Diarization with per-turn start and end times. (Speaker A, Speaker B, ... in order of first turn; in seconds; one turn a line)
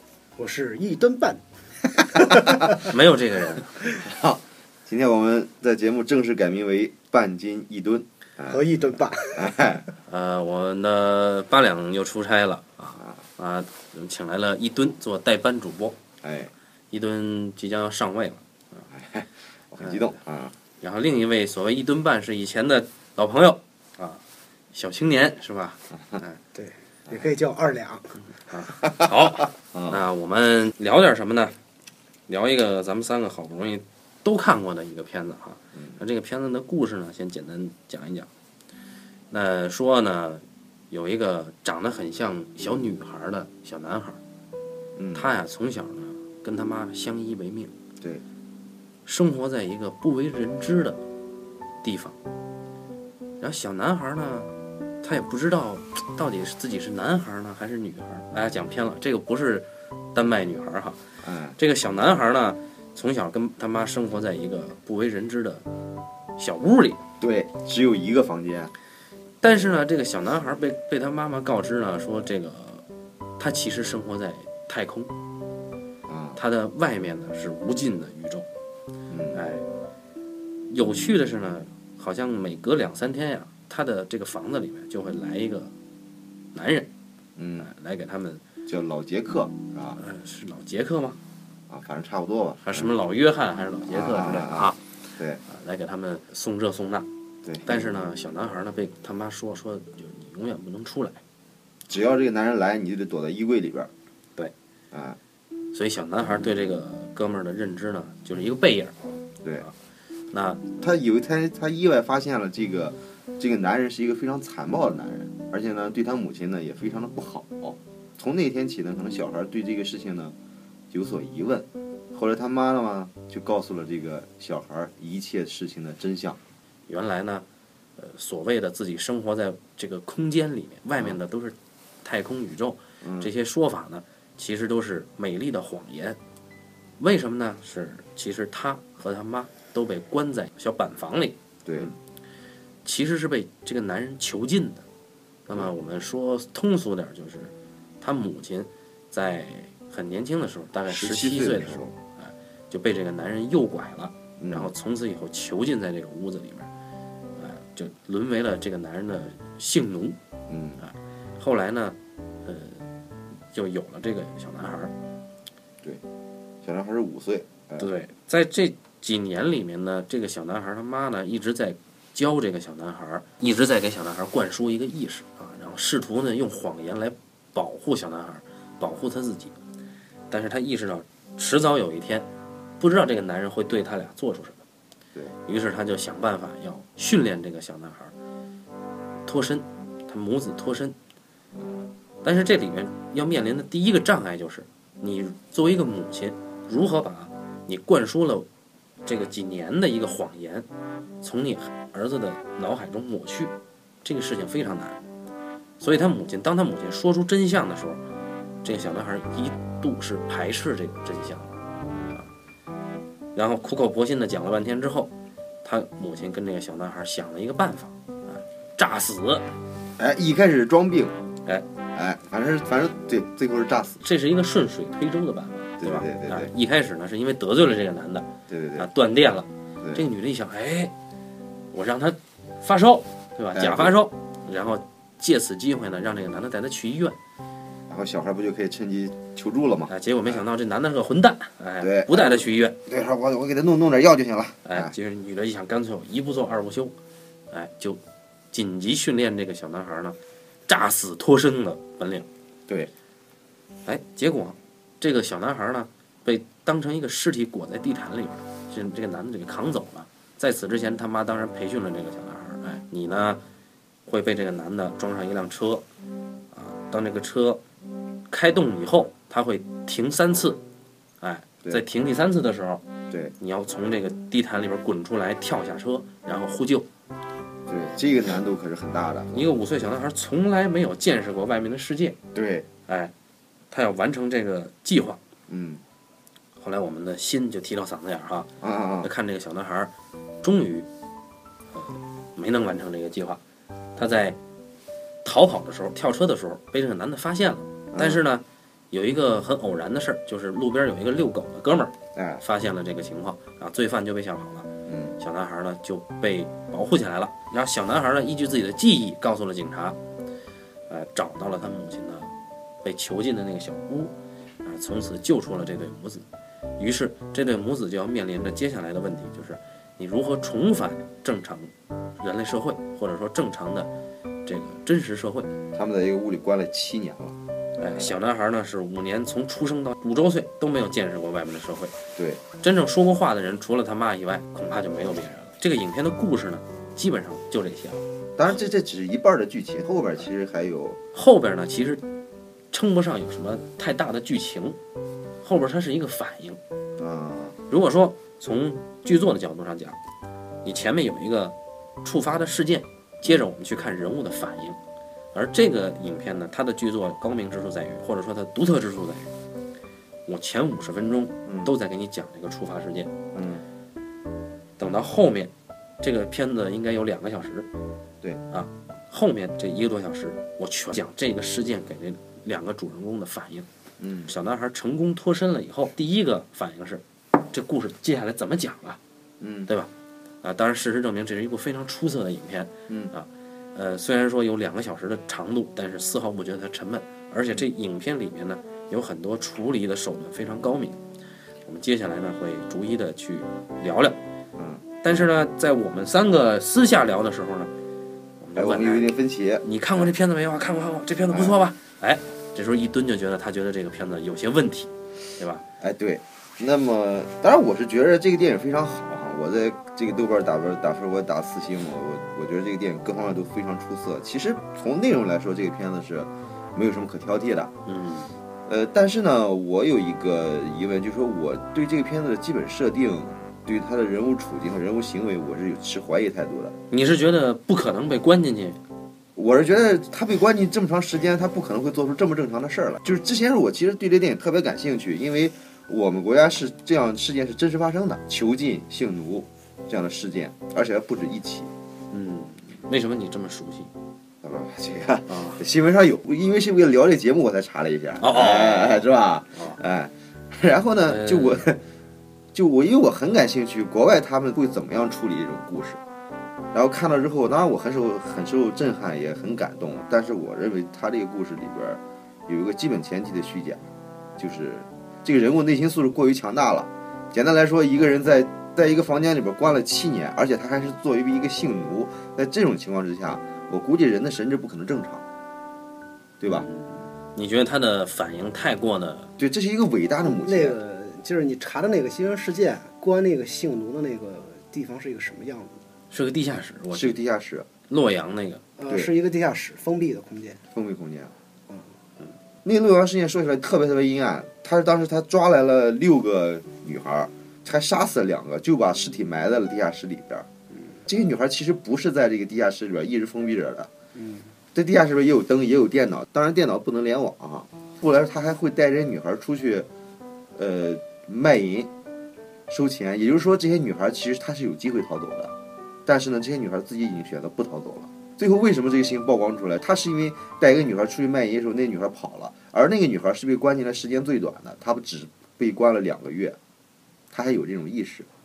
Speaker A: 0.4-2.9
Speaker B: 2.7-3.8
Speaker C: 4.0-8.7
Speaker A: 8.5-9.6
Speaker C: 9.3-9.8
Speaker B: 10.1-16.0
Speaker C: 16.2-16.5
Speaker B: 16.9-18.4
Speaker C: 18.9-20.6
Speaker B: 20.8-24.2
Speaker B: 24.7-26.4
Speaker A: 26.6-28.2
Speaker B: 28.5-31.6
Speaker C: 29.7-30.0
Speaker B: 32.3-38.3
Speaker B: 39.3-44.2
Speaker C: 45.0-45.3
Speaker B: 45.1-47.7
Speaker B: 49.1-51.0
Speaker B: 51.8-52.2
Speaker B: 53.4-61.0
Speaker C: 61.2-61.6
Speaker B: 61.6-65.7
Speaker B: 66.4-67.0
Speaker C: 67.2-68.7
Speaker B: 69.4-72.8
Speaker B: 73.4-75.1
Speaker C: 76.1-76.4
Speaker B: 76.4-78.5
Speaker C: 79.1-79.4
Speaker B: 79.3-79.6
Speaker B: 80.7-85.7
Speaker B: 86.5-86.9
Speaker C: 87.4-87.7
Speaker B: 87.6-88.4
Speaker C: 88.7-90.0
Speaker B: 90.0-91.2
Speaker C: 91.7-92.9
Speaker B: 92.7-94.8
Speaker C: 93.8-95.4
Speaker B: 95.5-97.1
Speaker C: 97.5-97.9
Speaker B: 97.7-101.2
Speaker C: 101.9-103.9
Speaker C: 104.9-105.2
Speaker B: 105.7-109.0
Speaker B: 110.3-110.8
Speaker C: 110.8-120.3
Speaker C: 120.9-126.4
Speaker B: 126.9-127.5
Speaker B: 128.0-136.2
Speaker C: 133.0-133.3
Speaker B: 137.0-141.9
Speaker C: 141.7-141.9
Speaker B: 142.8-144.8
Speaker B: 145.5-156.7
Speaker C: 150.9-151.9
Speaker C: 154.4-154.7
Speaker B: 157.4-160.2
Speaker C: 160.5-160.8
Speaker B: 160.8-162.8
Speaker B: 163.5-164.9
Speaker C: 166.6-167.9
Speaker B: 167.8-179.6
Speaker B: 180.3-182.3
Speaker B: 182.8-184.6
Speaker B: 185.5-188.1
Speaker B: 189.3-190.9
Speaker B: 192.2-198.5
Speaker B: 199.1-200.7
Speaker B: 201.2-203.5
Speaker B: 204.0-205.0
Speaker B: 205.8-208.0
Speaker B: 208.6-211.5
Speaker B: 213.3-215.1
Speaker B: 215.6-219.5
Speaker C: 220.0-221.2
Speaker C: 221.9-224.0
Speaker B: 224.0-230.9
Speaker C: 225.8-226.5
Speaker C: 228.5-228.9
Speaker B: 231.7-237.2
Speaker C: 233.6-234.0
Speaker C: 237.9-240.4
Speaker B: 239.9-242.8
Speaker C: 241.8-244.9
Speaker B: 244.7-246.9
Speaker B: 247.5-248.0
Speaker B: 248.5-250.2
Speaker B: 250.7-252.3
Speaker B: 253.9-263.4
Speaker B: 264.1-265.8
Speaker B: 266.5-267.6
Speaker B: 268.3-270.6
Speaker B: 271.2-272.8
Speaker B: 273.4-276.9
Speaker C: 277.7-279.5
Speaker B: 279.3-282.2
Speaker C: 282.4-282.7
Speaker B: 282.9-283.1
Speaker B: 283.7-285.2
Speaker C: 285.5-285.8
Speaker B: 286.6-288.5
Speaker C: 288.6-289.1
Speaker B: 289.0-290.9
Speaker B: 291.7-293.4
Speaker B: 294.0-294.4
Speaker B: 295.2-304.7
Speaker C: 297.9-298.2
Speaker C: 302.1-302.4
Speaker C: 304.9-305.2
Speaker B: 305.2-310.0
Speaker B: 310.9-312.3
Speaker B: 312.8-316.3
Speaker B: 316.8-323.9
Speaker B: 324.5-325.5
Speaker C: 325.7-327.4
Speaker B: 327.8-331.9
Speaker C: 332.2-332.4
Speaker B: 332.6-338.0
Speaker C: 338.4-341.0
Speaker B: 341.1-342.0
Speaker B: 342.7-344.8
Speaker B: 345.4-346.6
Speaker C: 347.0-347.6
Speaker B: 347.7-350.0
Speaker B: 350.6-354.8
Speaker B: 355.3-359.3
Speaker B: 360.3-363.1
Speaker C: 361.5-361.7
Speaker C: 363.3-363.6
Speaker B: 364.8-367.7
Speaker B: 368.5-373.7
Speaker C: 374.0-374.3
Speaker B: 374.3-379.0
Speaker C: 379.4-379.7
Speaker B: 380.4-391.0
Speaker B: 391.7-394.2
Speaker C: 394.6-394.9
Speaker B: 395.0-397.7
Speaker B: 398.4-399.1
Speaker C: 398.6-400.1
Speaker B: 399.6-405.6
Speaker C: 401.3-401.6
Speaker C: 405.8-417.7
Speaker B: 417.9-418.3
Speaker C: 418.7-426.8
Speaker B: 426.9-428.8
Speaker C: 429.4-441.7
Speaker B: 442.1-443.9
Speaker C: 444.4-451.8
Speaker B: 445.3-445.6
Speaker B: 448.2-449.8
Speaker B: 451.1-451.7
Speaker C: 452.5-456.0
Speaker C: 456.7-463.9
Speaker C: 464.4-475.2
Speaker C: 476.4-476.7
Speaker B: 477.4-479.3
Speaker C: 479.4-480.8
Speaker A: 480.2-485.8
Speaker B: 486.1-487.2
Speaker C: 486.9-487.7
Speaker B: 487.9-488.6
Speaker A: 488.8-490.6
Speaker C: 490.7-491.3
Speaker C: 492.6-500.5
Speaker A: 500.8-501.0
Speaker C: 501.1-503.9
Speaker A: 504.1-504.5
Speaker C: 504.7-509.9
Speaker C: 510.6-511.9
Speaker C: 512.7-515.5
Speaker C: 516.1-526.6
Speaker C: 527.3-528.3